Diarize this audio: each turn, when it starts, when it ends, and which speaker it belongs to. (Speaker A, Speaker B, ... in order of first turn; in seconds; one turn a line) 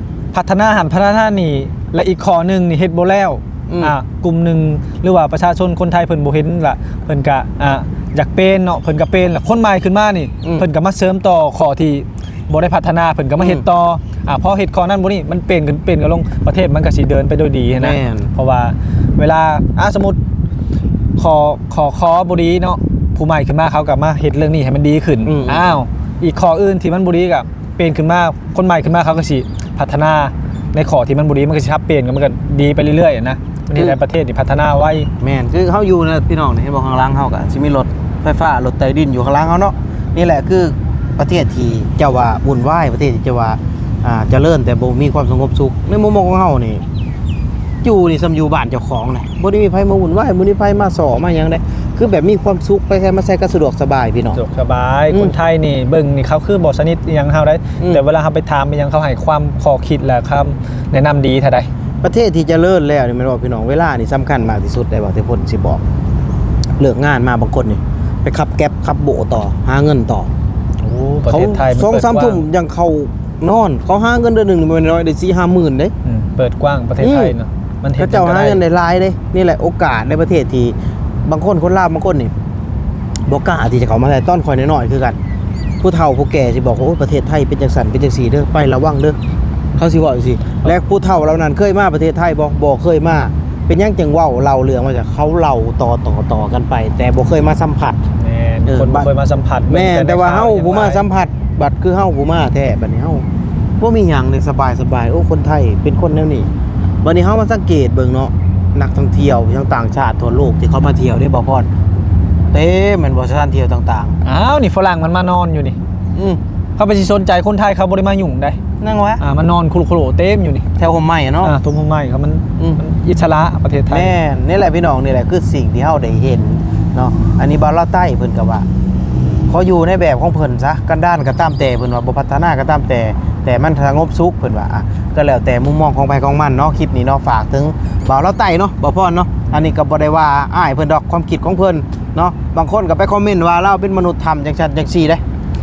Speaker A: 0.3-20.2
Speaker B: 3.7-3.9
Speaker B: 13.4-13.6
Speaker B: 17.8-18.3
Speaker A: 21.2-35.1
Speaker B: 25.2-25.7
Speaker B: 35.2-46.8
Speaker B: 47.8-54.4
Speaker A: 54.4-61.7
Speaker B: 62.0-65.8
Speaker B: 66.8-70.3
Speaker A: 70.8-72.4
Speaker B: 71.3-75.9
Speaker A: 76.0-78.6
Speaker B: 77.0-77.3
Speaker B: 78.0-80.7
Speaker B: 81.3-82.3
Speaker B: 83.3-85.2
Speaker B: 85.8-89.2
Speaker B: 89.8-98.0
Speaker A: 98.2-101.0
Speaker B: 98.7-99.1
Speaker B: 99.7-103.2
Speaker B: 103.8-106.5
Speaker B: 107.0-111.7
Speaker B: 112.5-114.2
Speaker A: 114.2-115.8
Speaker B: 116.1-116.4
Speaker A: 116.8-118.6
Speaker B: 118.8-119.2
Speaker A: 119.2-120.7
Speaker B: 120.8-121.5
Speaker A: 121.4-124.1
Speaker B: 123.9-128.7
Speaker B: 129.5-145.2